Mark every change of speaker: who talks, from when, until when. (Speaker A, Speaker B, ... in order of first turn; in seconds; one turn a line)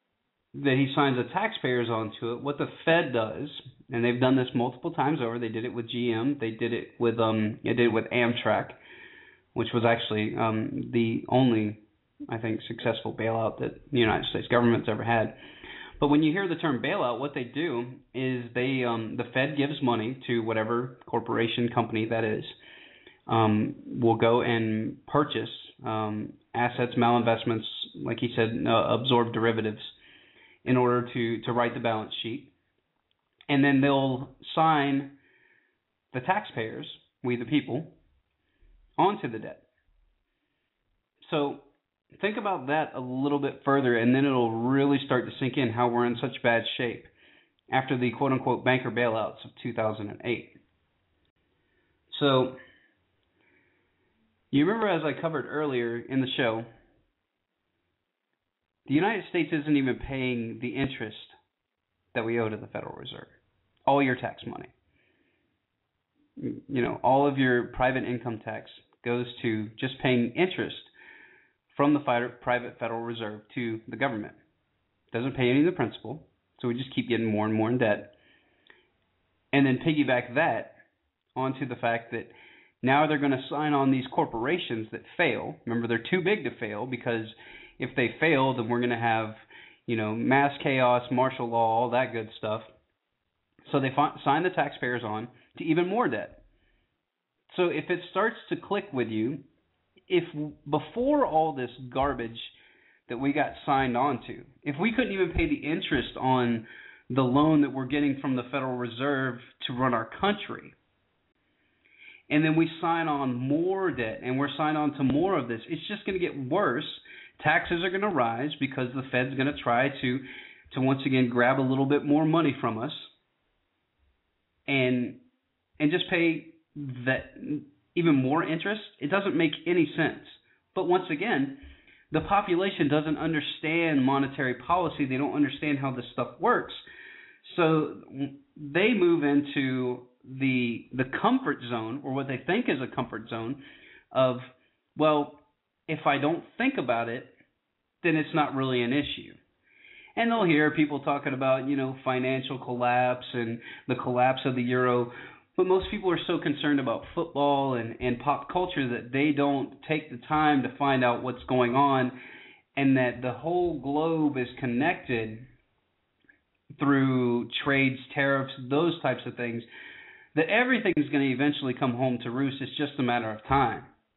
Speaker A: 0.5-8.8
Speaker A: 9.6-15.4
Speaker A: 16.0-22.5
Speaker A: 23.3-29.9
Speaker A: 30.6-32.5
Speaker A: 33.5-35.1
Speaker A: 36.1-37.9
Speaker A: 39.0-39.6
Speaker A: 41.2-41.6
Speaker A: 42.1-47.1
Speaker A: 47.7-50.6
Speaker A: 52.1-52.6
Speaker A: 54.5-56.7
Speaker A: 58.9-61.4
Speaker A: 62.1-63.3
Speaker A: 63.9-64.7
Speaker A: 66.4-70.9
Speaker A: 71.7-74.4
Speaker A: 75.1-78.1
Speaker A: 79.5-80.8
Speaker A: 81.4-92.7
Speaker A: 93.7-96.4
Speaker A: 97.5-99.4
Speaker A: 100.1-102.5
Speaker A: 103.1-110.7
Speaker A: 112.3-123.1
Speaker A: 124.7-125.2
Speaker A: 125.8-131.6
Speaker A: 132.1-136.8
Speaker A: 137.4-143.6
Speaker A: 144.1-145.4
Speaker A: 145.9-147.3
Speaker A: 148.0-149.4
Speaker A: 150.2-162.2
Speaker A: 162.8-165.5
Speaker A: 166.8-169.7
Speaker A: 170.3-173.9